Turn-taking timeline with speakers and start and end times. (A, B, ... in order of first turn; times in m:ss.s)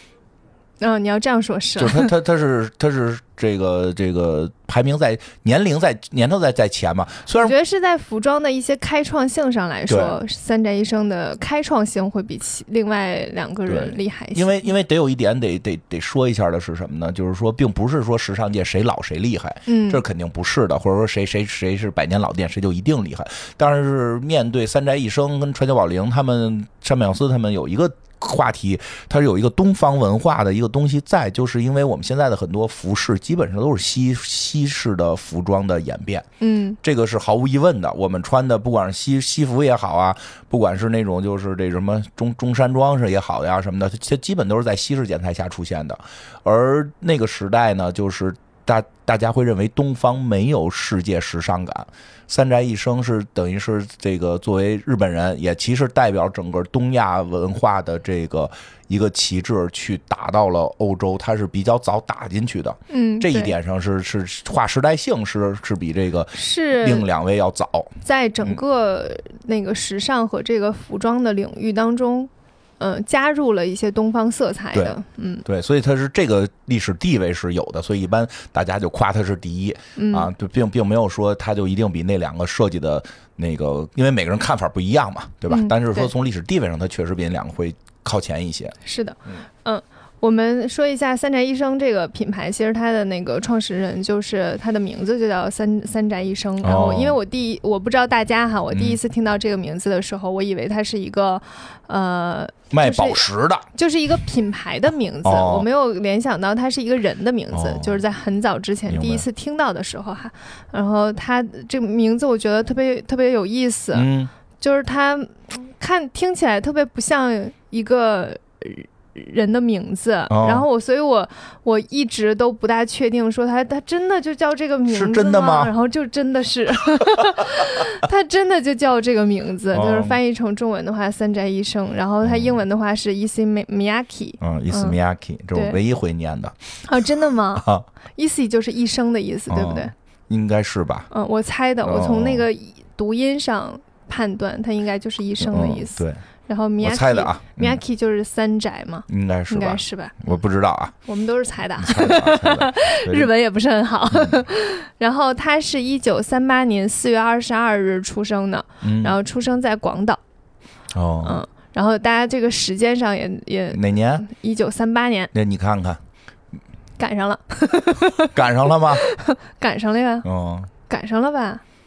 0:00.8-0:02.1 A
0:01.8-0:07.6 B
0:07.4-0:14.7 A
0:09.9-0:10.2 B
0:13.7-0:36.2 B
0:19.6-0:20.0 A
0:36.4-0:36.8 A
0:36.8-1:08.6 B
1:02.9-1:03.5 A
1:06.3-1:07.1 A
1:08.0-1:15.4 A
1:14.7-1:28.8 B
1:20.0-1:20.3 A
1:25.5-1:26.1 A
1:28.8-1:54.1 A
1:36.6-1:37.2 B
1:38.7-1:39.0 B
1:42.7-1:43.6 B
1:45.2-1:45.6 B
1:47.5-1:48.0 B
1:48.9-1:49.2 B
1:53.9-1:54.3 B
1:54.6-2:15.0 A
2:00.3-2:00.6 B
2:04.9-2:05.7 B
2:09.7-2:10.2 B
2:12.2-2:12.6 B
2:14.4-2:16.6 B
2:16.8-2:19.9 A
2:17.6-2:17.8 B
2:19.5-2:21.1 B
2:21.1-2:30.2 A
2:21.8-2:22.5 B
2:25.4-2:26.2 B
2:26.8-2:27.8 B
2:29.1-2:30.9 B
2:31.1-2:40.2 A
2:31.8-2:33.3 B
2:38.8-2:39.2 B
2:40.9-2:41.4 B
2:41.2-2:45.3 A
2:43.7-2:44.2 B
2:45.3-2:46.0 B
2:47.0-2:50.3 A
2:48.2-2:49.0 B
2:50.2-2:50.7 B
2:50.9-2:51.6 A